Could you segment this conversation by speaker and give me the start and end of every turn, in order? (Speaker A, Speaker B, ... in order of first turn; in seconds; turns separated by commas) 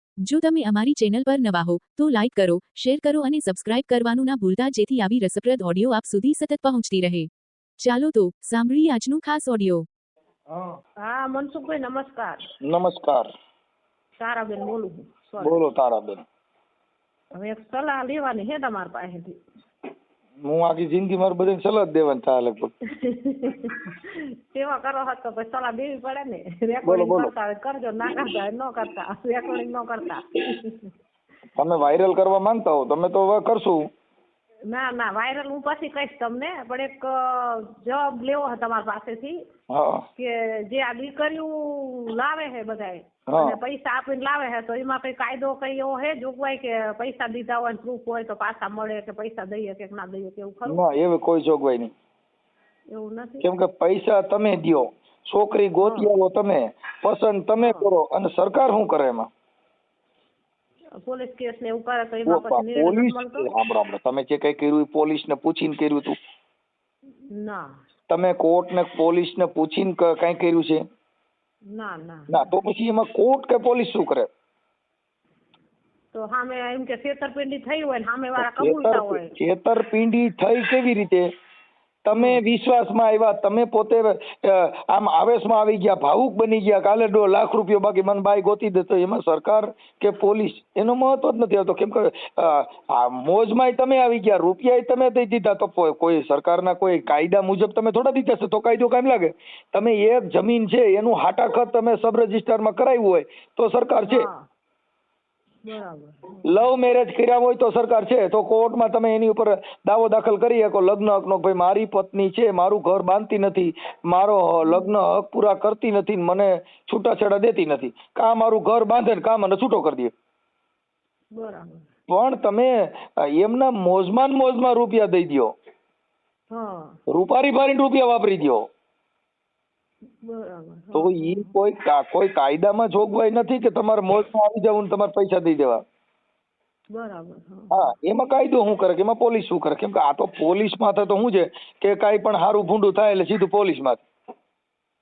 Speaker A: 0.2-7.3, Speaker A: 7.8-9.9, Speaker B: 10.5-10.8, Speaker C: 11.0-12.5, Speaker B: 12.6-13.3, Speaker C: 14.2-15.6, Speaker B: 15.4-16.3, Speaker C: 17.4-19.4, Speaker B: 20.4-22.7, Speaker C: 23.0-30.9, Speaker B: 26.9-27.3, Speaker B: 31.6-33.9, Speaker C: 34.7-39.5, Speaker B: 39.7-40.1, Speaker C: 40.2-50.9, Speaker B: 43.3-43.6, Speaker B: 50.7-51.9, Speaker C: 52.9-53.5, Speaker B: 53.4-59.3, Speaker C: 55.8-56.1, Speaker C: 57.6-57.9, Speaker C: 61.0-63.5, Speaker B: 62.3-66.2, Speaker C: 67.3-67.7, Speaker B: 68.1-70.8, Speaker C: 71.7-72.5, Speaker B: 72.3-74.3, Speaker C: 76.1-79.4, Speaker B: 78.4-81.3, Speaker B: 82.0-104.3, Speaker C: 82.1-82.4, Speaker C: 104.0-104.5, Speaker C: 105.7-106.6, Speaker B: 106.5-120.1, Speaker C: 114.6-114.9, Speaker C: 121.3-121.9, Speaker B: 122.1-125.5, Speaker C: 126.5-127.0, Speaker B: 127.1-128.7, Speaker C: 130.2-131.5, Speaker B: 130.9-135.8, Speaker C: 136.9-137.9, Speaker B: 137.7-144.0